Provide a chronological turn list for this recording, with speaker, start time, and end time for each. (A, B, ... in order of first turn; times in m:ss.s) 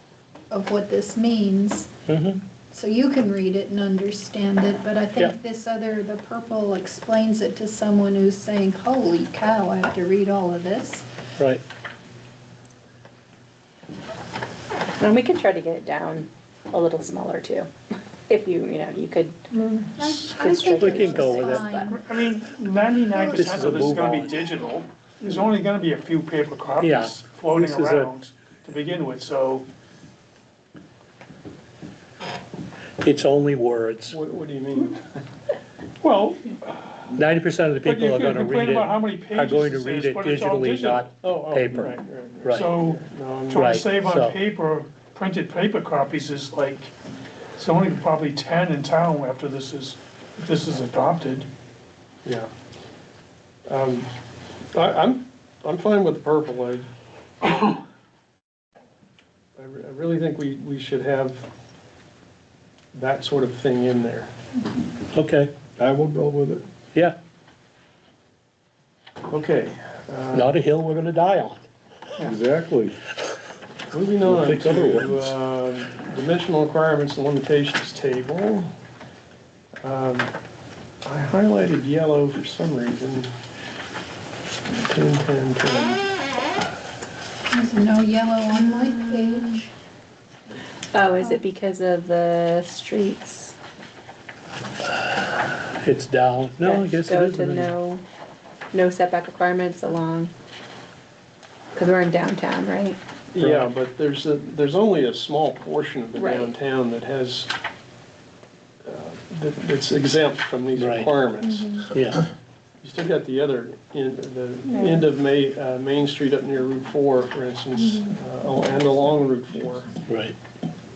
0:00.5-0:01.9 A
0:02.1-0:02.4 B
0:02.7-0:11.1 A
0:15.0-0:17.7 C
0:18.3-0:19.4 C
0:19.5-0:22.0 A
0:20.0-0:22.0 C
0:20.7-0:21.7 B
0:21.9-0:29.6 D
0:23.2-0:24.4 B
0:26.8-0:28.1 B
0:33.0-0:34.2 B
0:34.1-0:35.0 E
0:36.0-0:36.8 D
0:37.1-0:42.7 B
0:37.8-0:41.1 D
0:41.2-0:43.7 E
0:42.5-0:46.9 D
0:43.5-0:44.4 B
0:47.6-0:51.5 D
0:52.2-0:52.5 E
0:53.7-0:54.1 E
0:54.7-0:56.9 E
0:59.6-1:01.5 E
1:02.9-1:04.3 E
1:05.1-1:05.5 B
1:05.8-1:06.6 F
1:09.3-1:10.6 E
1:10.3-1:11.6 B
1:12.2-1:13.0 F
1:13.9-1:18.7 E
1:14.2-1:15.1 F
1:14.3-1:15.3 B
1:19.8-1:20.3 E
1:21.0-1:23.3 E
1:24.7-1:26.0 E
1:27.5-1:29.7 A
1:28.5-1:29.6 C
1:30.9-1:33.6 C
1:35.8-1:37.7 B
1:36.6-1:38.0 C
1:38.7-1:40.3 C
1:41.8-1:43.0 C
1:43.3-1:47.5 E
1:43.4-1:43.7 B
1:46.2-1:46.5 C
1:48.8-1:51.8 E
1:50.8-1:51.1 B
1:51.4-1:51.9 C
1:51.9-1:52.2 B
1:52.8-2:00.0 E
1:54.7-1:55.1 C
2:00.1-2:00.4 B